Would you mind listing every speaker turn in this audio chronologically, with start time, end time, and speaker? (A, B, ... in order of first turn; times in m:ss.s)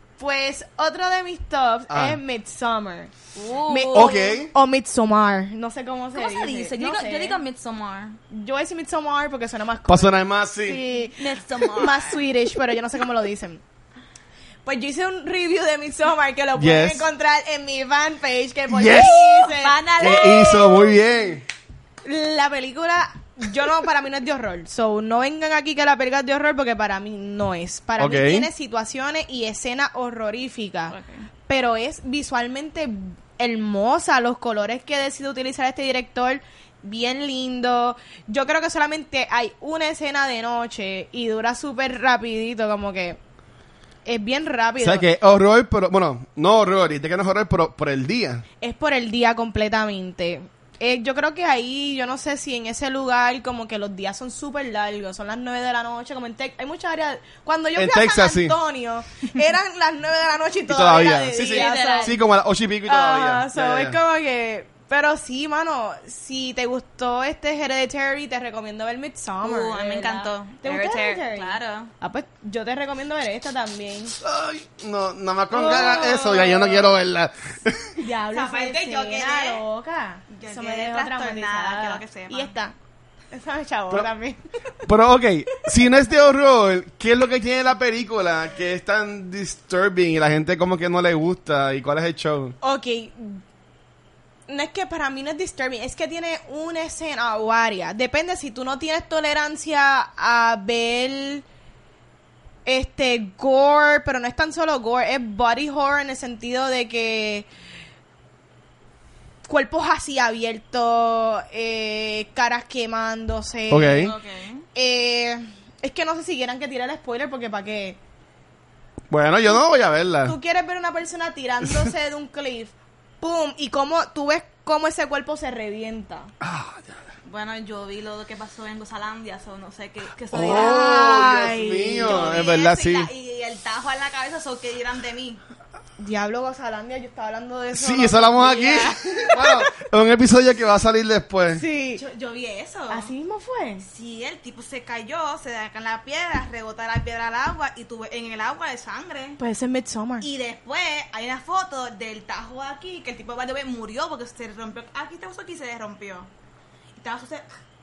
0:00.2-0:03.1 A
0:01.9-0:02.2 B
0:03.4-0:04.3 C
0:03.7-0:07.4 A
0:03.9-0:04.5 B
0:06.2-0:08.2 C
0:08.3-0:13.6 A
0:09.9-0:10.8 B
0:11.1-0:12.2 C
0:14.6-0:19.8 A
0:16.6-0:17.1 B
0:18.7-0:19.2 B
0:18.9-0:21.0 C
0:20.0-0:21.4 B
0:22.0-0:31.0 A
0:28.0-0:28.5 B
0:30.9-0:31.2 C
0:31.5-0:43.2 A
0:44.0-0:45.1 A
0:44.8-0:48.4 B
0:48.6-1:02.2 A
0:57.8-0:58.6 B
1:00.7-1:04.0 B
1:01.4-1:02.2 C
1:02.9-1:14.2 A
1:09.4-1:11.9 C
1:14.2-1:18.0 B
1:15.5-1:16.9 A
1:18.0-1:22.7 A
1:18.3-1:19.6 C
1:20.3-1:22.5 C
1:23.3-1:24.7 A
1:24.8-1:32.6 B
1:32.6-1:33.4 A
1:34.5-1:41.4 A
1:42.7-1:47.5 A
1:49.5-1:54.2 A
1:53.7-1:54.1 B
1:53.9-1:54.6 C
1:54.8-1:58.0 A
1:59.1-2:00.4 B
2:00.2-2:06.3 A
2:01.6-2:01.9 B
2:06.4-2:07.0 B
2:07.3-2:11.0 C
2:10.3-2:13.1 B
2:10.4-2:12.5 A
2:12.0-2:15.4 C
2:16.0-2:19.7 A
2:17.7-2:21.6 B
2:21.5-2:22.0 A
2:22.0-2:23.1 C
2:22.9-2:23.8 A
2:23.8-2:29.4 C
2:29.4-2:30.3 A
2:30.2-2:36.3 C
2:37.0-2:37.4 C